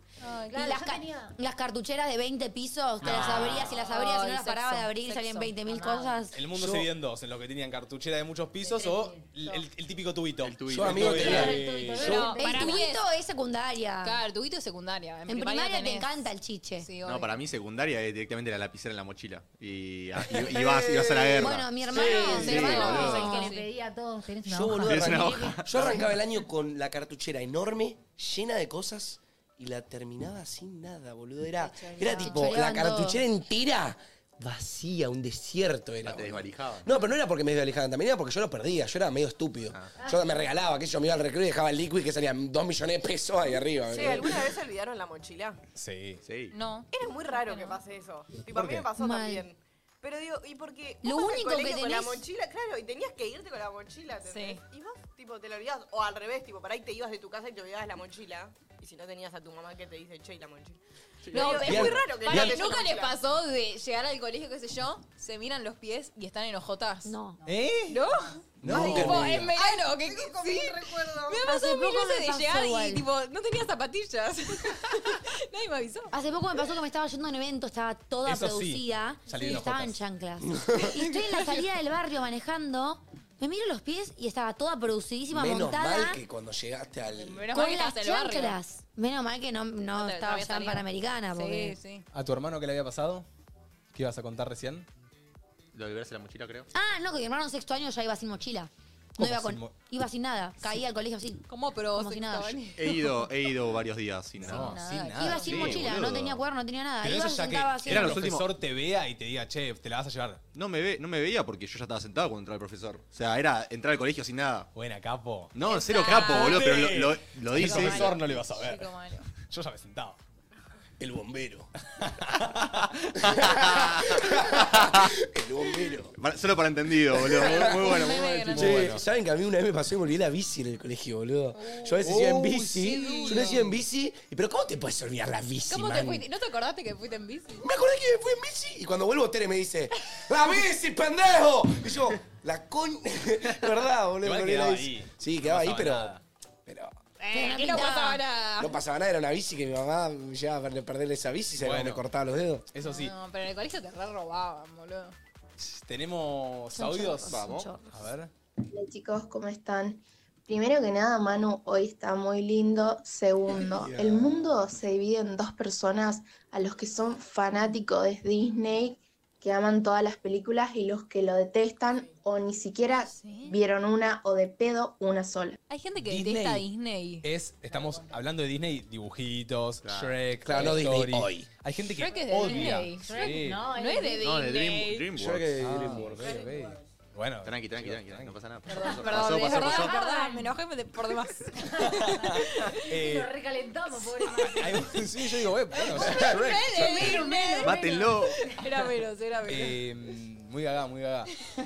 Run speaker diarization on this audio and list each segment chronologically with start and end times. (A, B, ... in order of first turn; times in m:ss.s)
0:00.2-0:00.7 A
0:00.4-0:01.3 B
0:00.5-0:06.4 C
0:03.0-0:03.6 B
0:03.0-0:05.6 A
0:03.0-0:03.7 D
0:05.6-0:06.2 B
0:06.3-0:12.3 D
0:06.5-0:06.9 E
0:08.6-0:09.6 B
0:10.4-0:11.5 F
0:10.7-0:11.6 E
0:11.2-0:12.7 B
0:11.9-0:13.0 A
0:12.4-0:14.2 C
0:14.0-0:16.3 A
0:15.3-0:16.9 C
0:16.8-0:17.4 A
0:17.0-0:23.1 F
0:20.3-0:21.6 E
0:21.3-0:23.5 C
0:21.9-0:23.7 A
0:22.4-0:22.9 D
0:22.9-0:25.7 B
0:24.4-0:44.5 E
0:24.8-0:26.1 F
0:31.6-0:32.4 A
0:32.2-0:33.2 C
0:36.0-0:36.9 F
0:40.0-0:40.3 B
0:43.8-0:45.6 G
0:45.8-0:46.2 D
0:46.2-0:46.5 F
0:46.5-0:47.8 A
0:46.9-1:03.2 G
0:48.5-0:48.9 D
0:49.0-0:49.4 C
0:51.0-0:52.2 C
0:54.2-0:54.6 A
1:01.3-1:07.1 A
1:01.6-1:02.6 E
1:07.0-1:07.4 C
1:07.4-1:08.0 D
1:07.9-1:16.1 A
1:08.6-1:09.5 E
1:08.6-1:09.5 D
1:09.5-1:11.4 G
1:11.4-1:13.0 C
1:16.1-1:26.2 C
1:18.2-1:20.0 D
1:20.4-1:20.9 E
1:21.0-1:21.6 A
1:25.3-1:27.4 E
1:27.2-1:28.6 A
1:27.5-1:31.8 C
1:29.9-1:32.1 A
1:32.1-1:33.2 D
1:33.9-1:34.9 D
1:35.7-1:36.7 F
1:36.7-1:42.6 C
1:39.2-1:39.7 D
1:41.5-1:43.2 A
1:42.8-1:44.8 F
1:44.4-1:45.8 D
1:44.4-1:45.8 A
1:45.2-1:48.2 C
1:45.4-1:46.4 F
1:47.0-1:50.4 D
1:47.9-1:48.5 F
1:50.5-1:54.7 F
1:54.7-2:00.2 D
1:55.5-1:58.2 F
1:55.6-1:56.8 A
1:57.5-1:59.3 A
2:01.0-2:01.7 E
2:02.0-2:02.8 D
2:03.2-2:06.1 E
2:03.3-2:05.0 F
2:06.1-2:08.9 F
2:07.1-2:16.2 E
2:07.3-2:08.8 A
2:08.4-2:09.0 D
2:11.7-2:12.0 A
2:12.0-2:13.7 D
2:12.9-2:13.6 A
2:13.0-2:13.4 F
2:15.7-2:17.6 A
2:17.6-2:27.0 E
2:24.2-2:26.2 D
2:27.2-2:28.8 A
2:27.3-2:28.2 C
2:28.6-2:32.7 E
2:31.5-2:32.0 D
2:32.7-2:33.1 D
2:32.8-2:35.1 A
2:35.6-2:38.3 D
2:36.7-2:37.8 C
2:37.2-2:37.7 F
2:38.6-2:55.6 H
2:43.5-2:44.6 E
2:53.1-2:53.6 A
2:55.7-2:57.2 A
2:56.0-2:56.6 D
2:57.2-3:03.6 D
2:59.8-3:00.2 F
3:00.4-3:01.5 E
3:02.0-3:05.1 A
3:02.4-3:04.3 B
3:04.2-3:06.0 F
3:05.1-3:06.4 E
3:05.6-3:08.4 D
3:06.2-3:06.5 G
3:07.4-3:09.9 F
3:08.7-3:12.9 A
3:08.7-3:10.5 B
3:11.6-3:12.4 B
3:11.8-3:13.3 D
3:13.0-3:14.7 B
3:14.0-3:14.7 A
3:14.4-3:16.6 D
3:15.7-3:19.8 A
3:15.9-3:17.0 E
3:16.7-3:18.8 B
3:17.6-3:18.4 F
3:19.4-3:21.3 D